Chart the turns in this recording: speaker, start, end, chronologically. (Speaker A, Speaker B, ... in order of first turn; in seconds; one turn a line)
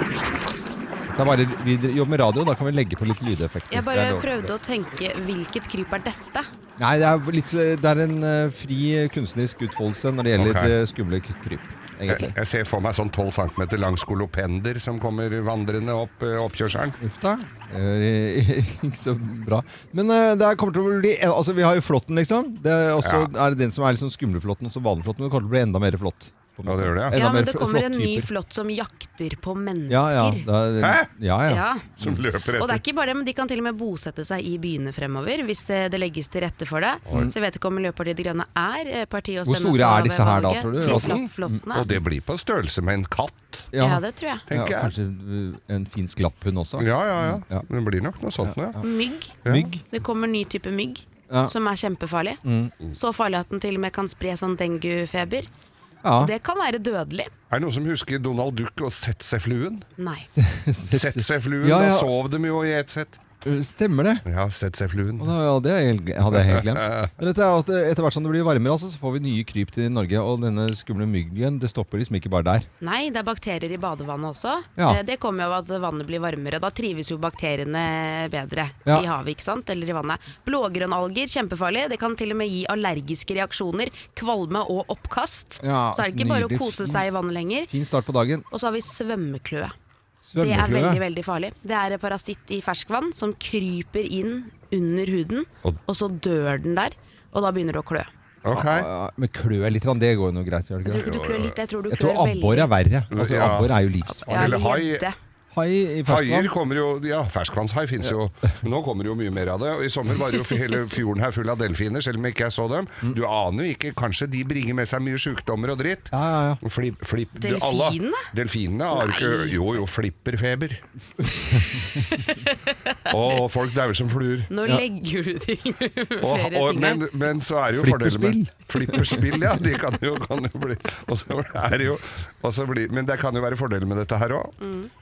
Speaker A: 1.1-4.3
Speaker B: 3.7-6.5
Speaker A: 6.8-12.3
Speaker C: 10.4-10.7
Speaker C: 12.1-17.0
Speaker A: 17.0-28.3
Speaker C: 23.0-23.3
Speaker C: 26.7-27.1
Speaker B: 27.1-30.4
Speaker A: 29.9-32.2
Speaker C: 30.8-31.1
Speaker B: 31.5-31.9
Speaker C: 32.0-32.8
Speaker B: 32.6-41.9
Speaker A: 39.5-41.6
Speaker C: 40.8-43.7
Speaker A: 43.7-47.7
Speaker B: 43.8-44.4
Speaker C: 44.5-44.9
Speaker C: 46.8-48.8
Speaker A: 48.4-48.9
Speaker B: 48.8-52.4
Speaker A: 49.4-49.8
Speaker A: 52.4-52.7
Speaker B: 52.9-55.5
Speaker A: 56.0-56.3
Speaker B: 56.2-57.3
Speaker C: 57.5-59.9
Speaker B: 60.0-60.3
Speaker A: 60.3-62.1
Speaker C: 60.9-63.2
Speaker A: 63.4-64.2
Speaker C: 64.3-65.3
Speaker A: 65.2-72.7
Speaker C: 66.3-67.1
Speaker B: 72.8-87.7
Speaker A: 85.6-87.0
Speaker A: 87.7-88.5
Speaker B: 88.5-89.8
Speaker A: 90.3-91.0
Speaker B: 90.4-98.1
Speaker C: 98.4-98.9
Speaker A: 98.5-101.1
Speaker B: 100.9-102.7
Speaker C: 101.0-101.6
Speaker A: 101.9-104.5
Speaker C: 103.1-103.7
Speaker B: 104.1-105.2
Speaker C: 104.3-105.0
Speaker A: 105.5-106.5
Speaker C: 106.1-116.1
Speaker A: 116.1-116.6
Speaker C: 116.6-120.8
Speaker B: 117.4-118.2
Speaker B: 118.9-119.6
Speaker A: 121.2-122.3
Speaker C: 123.1-124.5
Speaker B: 124.5-127.0
Speaker C: 126.2-134.6
Speaker A: 127.8-129.2
Speaker B: 134.6-134.9